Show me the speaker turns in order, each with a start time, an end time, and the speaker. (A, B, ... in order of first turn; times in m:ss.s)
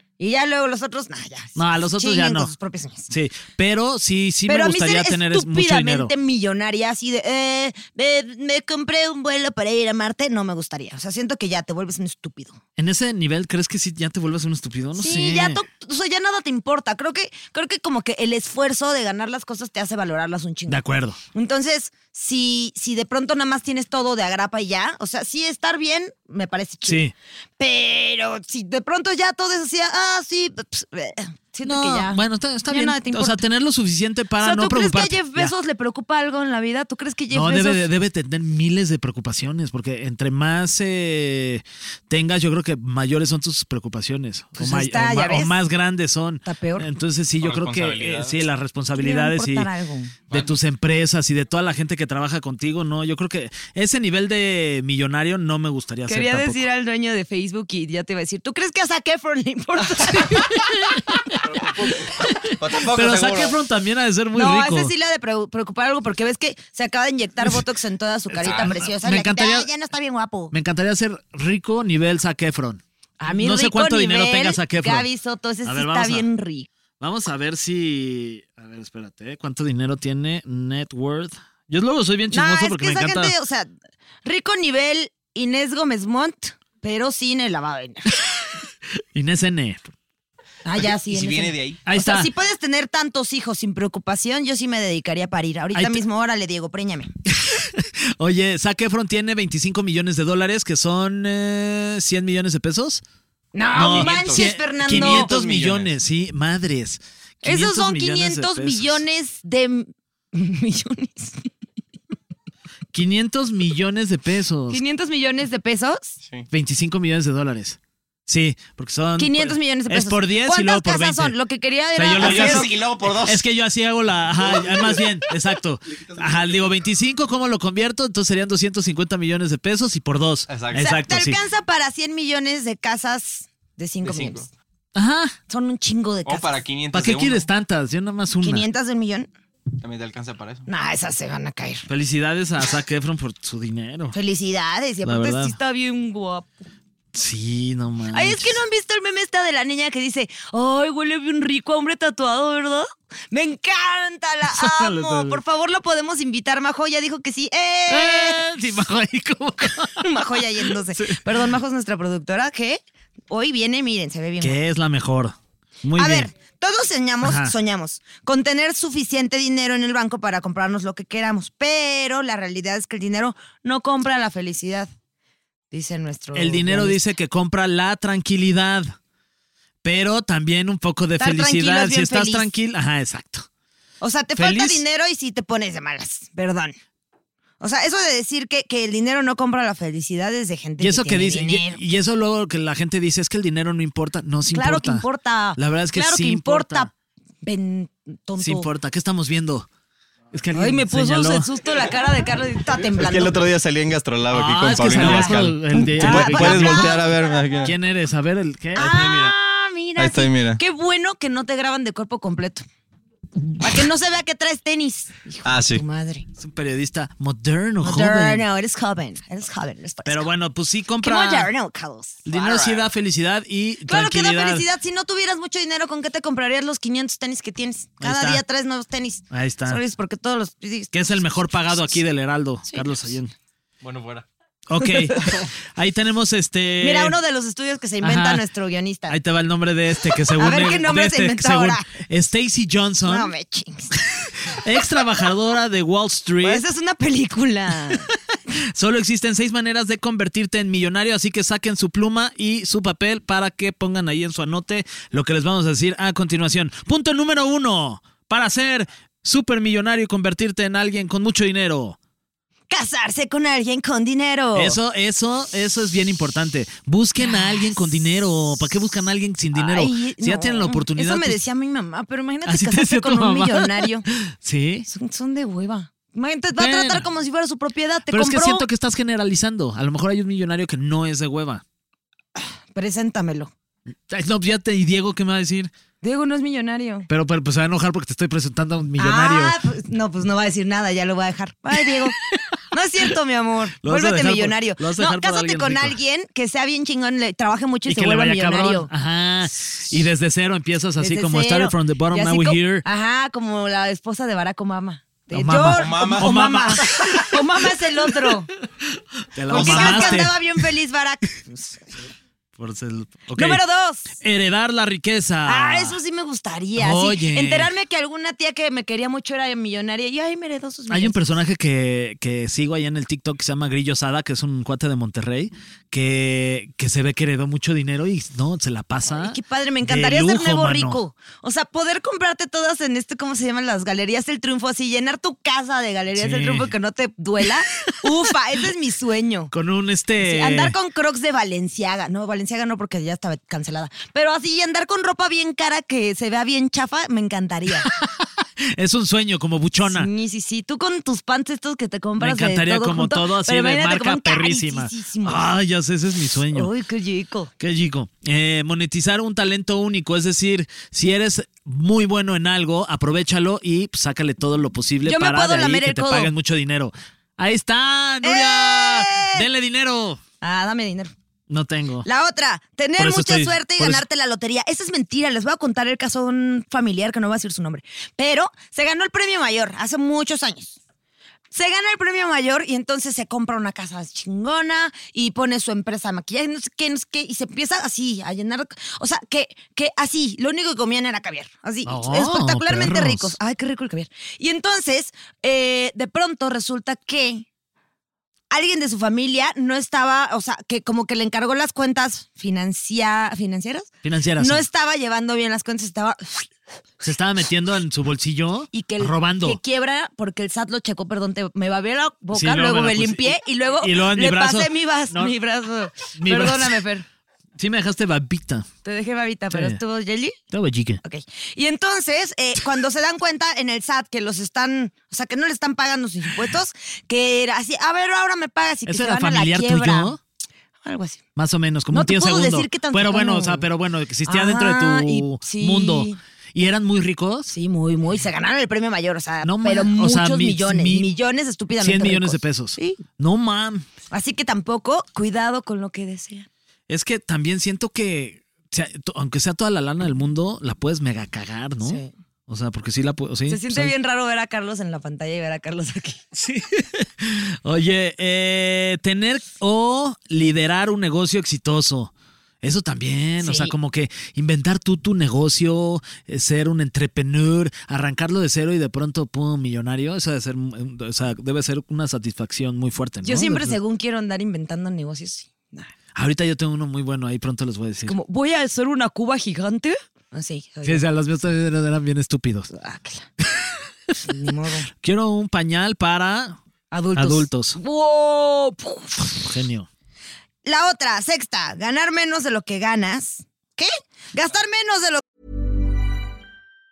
0:00.2-0:03.1 A
0:01.6-0:02.5 B
0:03.1-0:06.1 B
0:04.5-0:12.6 A
0:12.8-0:15.6 B
0:15.0-0:20.8 A
0:20.7-0:21.2 B
0:21.3-0:27.0 A
0:26.9-0:27.1 B
0:27.6-0:33.4 A
0:31.6-0:35.5 B
0:34.4-0:37.9 A
0:37.3-0:49.7 B
0:44.6-0:45.6 A
0:46.5-0:46.9 A
0:47.4-0:48.4 C
0:49.0-0:50.1 A
0:50.3-0:50.6 C
0:50.3-0:56.6 B
0:56.1-1:00.6 A
1:00.5-1:01.0 B
1:02.6-1:03.6 C
1:02.8-1:04.9 B
1:04.3-1:10.5 A
1:08.4-1:08.7 C
1:08.4-1:09.7 B
1:10.5-1:12.8 B
1:13.2-1:16.7 A
1:13.3-1:15.1 B
1:15.6-1:16.3 B
1:17.0-1:23.3 B
1:22.3-1:23.7 A
1:24.2-1:28.2 A
1:29.1-1:29.9 B
1:30.6-1:37.1 A
1:30.8-1:31.8 C
1:31.8-1:32.3 B
1:35.8-1:36.0 B
1:37.3-1:43.0 B
1:43.5-1:45.4 A
1:43.8-1:49.0 B
1:43.9-1:45.9 C
1:47.4-1:51.5 A
1:52.9-1:54.8 B
1:54.7-1:56.2 A
1:56.5-2:01.4 B
1:59.2-2:02.7 A
2:02.0-2:11.4 B
2:02.2-2:03.4 C
2:10.5-2:10.9 C
2:10.8-2:14.5 A
2:14.0-2:14.4 C
2:15.0-2:15.4 B
2:15.5-2:16.5 A
2:16.3-2:17.5 C
2:16.9-2:18.7 B
2:18.4-2:19.3 A
2:19.8-2:20.7 C
2:20.7-2:21.9 A
2:21.9-2:24.2 B
2:24.1-2:26.5 A
2:25.0-2:25.6 B
2:27.1-2:28.6 B
2:28.1-2:38.4 A
2:34.5-2:35.4 B
2:37.9-2:41.2 B
2:40.0-2:44.6 A
2:44.4-2:46.3 B
2:46.0-2:54.9 A
2:47.2-2:47.5 B
2:55.7-2:57.0 A
2:56.4-2:59.0 B
2:59.8-3:03.5 B
3:01.2-3:02.5 A
3:04.0-3:06.7 A
3:04.4-3:04.8 B
3:07.6-3:11.8 A
3:10.8-3:16.9 B
3:14.5-3:16.9 A
3:17.4-3:18.7 A
3:18.4-3:19.7 B
3:20.3-3:21.5 B
3:20.5-3:23.4 A
3:22.9-3:27.7 C
3:24.3-3:27.1 B
3:24.9-3:27.1 A
3:27.6-3:29.3 B
3:28.8-3:32.6 A
3:30.0-3:30.6 C
3:33.6-3:36.3 A
3:35.4-3:35.8 C
3:36.4-3:38.4 B
3:37.8-3:40.3 A
3:40.1-3:41.5 B
3:41.0-3:42.9 A
3:42.2-3:44.7 B
3:43.9-3:52.0 A
3:48.0-3:48.4 B
3:49.3-3:49.8 B
3:50.9-3:53.3 B
3:53.8-3:54.3 C
3:54.7-3:57.2 B
3:54.8-3:55.3 A
3:56.8-3:59.2 A
3:58.0-3:58.4 B
3:59.1-4:03.3 B
4:00.4-4:01.9 A
4:03.0-4:03.9 A
4:04.2-4:06.6 B
4:06.4-4:08.1 A
4:08.7-4:22.0 B
4:22.7-4:24.8 A
4:24.6-4:31.4 B
4:27.2-4:28.9 A
4:29.5-4:34.1 A
4:32.5-4:34.9 B
4:34.9-4:38.7 A
4:36.6-4:37.1 B
4:38.1-4:41.6 B
4:42.4-4:43.5 A
4:44.1-4:45.7 B
4:46.0-4:47.1 A
4:47.1-4:49.6 B
4:49.0-4:52.2 A
4:51.9-4:52.4 B
4:52.7-4:58.9 A
4:53.8-4:56.0 B
4:57.9-5:02.8 B
5:01.0-5:08.5 A
5:05.3-5:07.2 B
5:05.7-5:07.3 C
5:09.3-5:10.4 B
5:09.5-5:11.8 A
5:09.5-5:10.2 C
5:12.6-5:16.0 B
5:13.4-5:14.1 A
5:15.5-5:21.2 A
5:16.8-5:17.7 B
5:20.9-5:31.0 B
5:29.1-5:39.5 A
5:36.2-5:36.7 B
5:39.5-5:40.8 B
5:40.2-5:47.9 A
5:48.7-5:50.1 B
5:49.9-5:55.5 A
5:52.2-5:56.7 B
5:56.5-5:57.5 A
5:57.6-6:10.2 B
6:05.0-6:06.3 A
6:08.2-6:09.5 A
6:10.4-6:11.1 A
6:11.5-6:12.1 B
6:12.0-6:20.8 A
6:13.0-6:14.0 B
6:21.5-6:37.5 A
6:31.9-6:33.4 B
6:38.5-6:46.5 A
6:44.0-6:44.6 B
6:47.0-6:49.6 B
6:48.7-6:57.1 A
6:52.3-6:55.3 B
6:56.2-6:56.8 B
6:57.6-6:58.7 B
6:58.8-7:00.4 A
6:59.5-6:59.8 B
7:00.5-7:01.0 B
7:01.0-7:10.2 A
7:08.9-7:10.2 B
7:10.8-7:11.2 A
7:11.4-7:17.6 B
7:11.9-7:13.7 A
7:14.3-7:16.2 A
7:17.5-7:23.0 A
7:19.4-7:21.1 B
7:21.8-7:23.9 B
7:24.1-7:26.5 A
7:26.9-7:33.9 B
7:31.8-7:32.1 A
7:33.5-7:36.2 A
7:36.3-7:42.1 B
7:42.6-7:53.8 B
7:43.4-7:43.7 A
7:53.2-7:55.9 A
7:56.2-7:58.2 B
7:58.0-8:01.0 A
8:00.8-8:02.7 B
8:02.7-8:03.3 A
8:03.4-8:04.2 B
8:04.2-8:04.9 A
8:05.0-8:06.6 B
8:06.9-8:09.4 A
8:07.2-8:07.8 B
8:09.3-8:09.9 B
8:10.6-8:15.2 A